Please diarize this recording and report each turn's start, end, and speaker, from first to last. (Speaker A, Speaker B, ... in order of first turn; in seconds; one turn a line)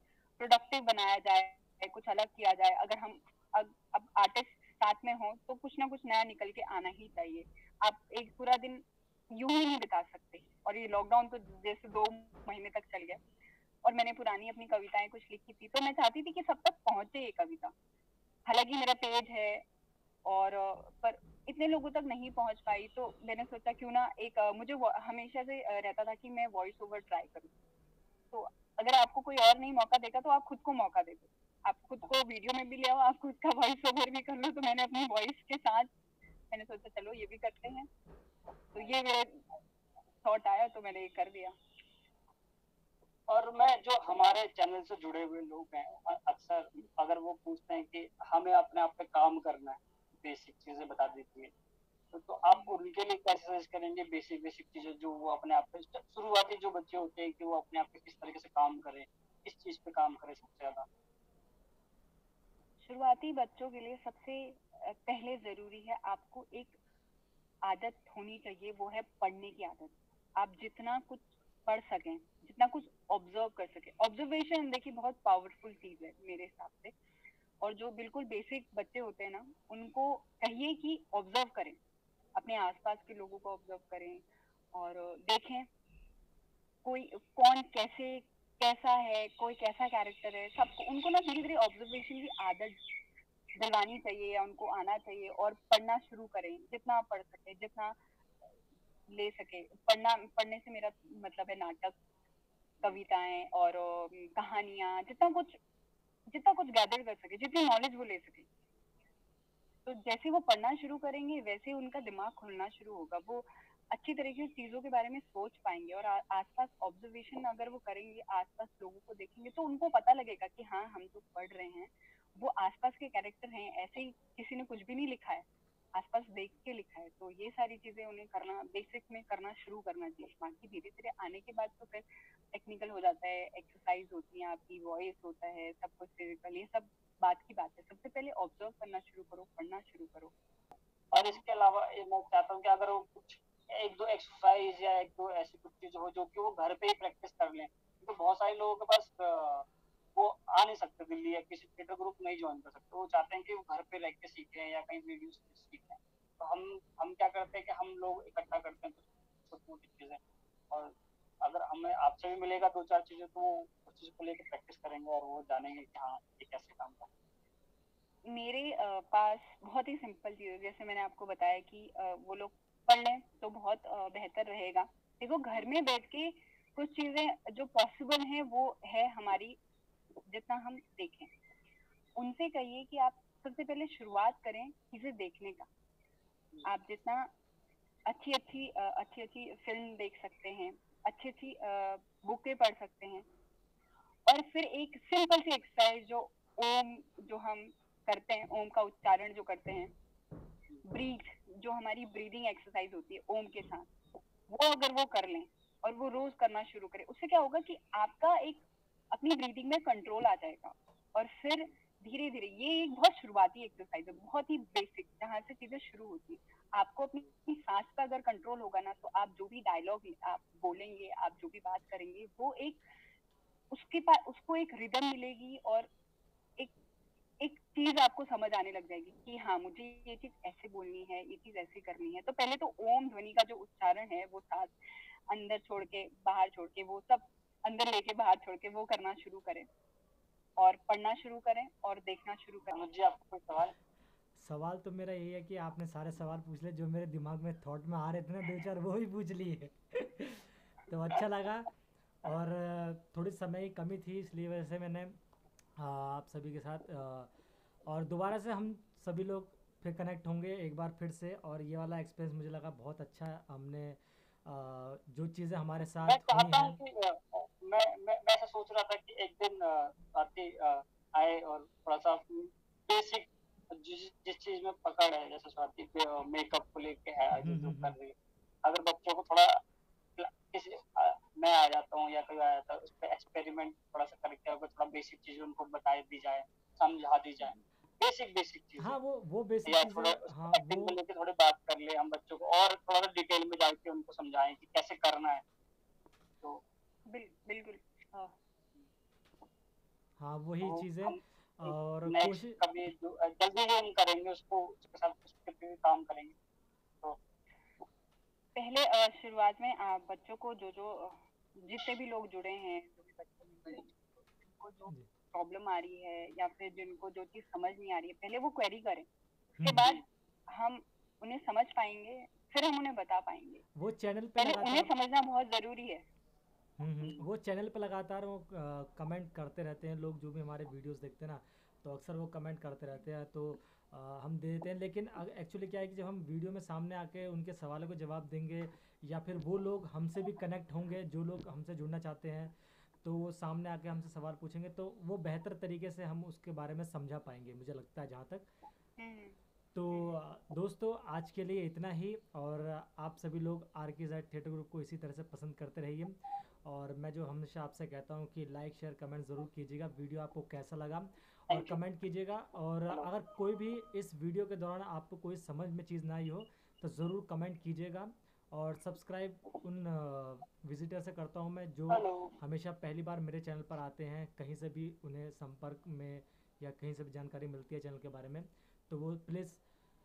Speaker A: 0.4-13.2
Speaker A: 13.8-17.7
Speaker A: 18.5-19.6
Speaker A: 20.2-27.5
Speaker A: 28.3-35.9
Speaker A: 36.5-37.9
Speaker A: 38.7-39.4
Speaker A: 40.2-41.5
Speaker B: 43.3-51.5
Speaker B: 52.1-60.9
Speaker A: 52.5-52.8
Speaker A: 62.8-66.8
Speaker A: 67.7-76.9
Speaker A: 77.6-81.8
Speaker A: 82.4-84.2
Speaker A: 84.7-85.7
Speaker A: 86.8-92.8
Speaker A: 93.5-98.0
Speaker A: 99.1-102.0
Speaker A: 102.8-105.6
Speaker A: 106.3-108.5
Speaker A: 109.9-140.3
Speaker A: 141.1-141.4
Speaker B: 141.1-167.1
Speaker A: 168.3-179.6
Speaker A: 180.3-181.3
Speaker A: 182.2-185.7
Speaker A: 186.6-187.3
Speaker A: 188.1-193.2
Speaker A: 194.3-199.9
Speaker A: 200.8-203.9
Speaker A: 204.5-222.8
Speaker A: 223.7-225.9
Speaker A: 227.4-234.8
Speaker A: 235.3-239.7
Speaker A: 240.6-242.7
Speaker B: 242.7-243.7
Speaker C: 244.4-251.7
Speaker C: 252.2-255.1
Speaker C: 255.8-257.3
Speaker C: 257.9-266.8
Speaker B: 266.0-279.6
Speaker C: 277.4-277.9
Speaker B: 280.2-288.9
Speaker C: 288.8-290.9
Speaker B: 289.6-295.4
Speaker A: 297.1-298.4
Speaker C: 300.2-302.6
Speaker B: 300.6-306.4
Speaker A: 308.6-319.1
Speaker C: 319.6-319.9
Speaker A: 319.6-323.6
Speaker B: 319.8-320.0
Speaker C: 323.8-324.9
Speaker A: 324.4-326.1
Speaker C: 326.8-348.5
Speaker A: 349.0-349.4
Speaker C: 349.8-379.6
Speaker B: 361.5-361.8
Speaker B: 371.9-372.4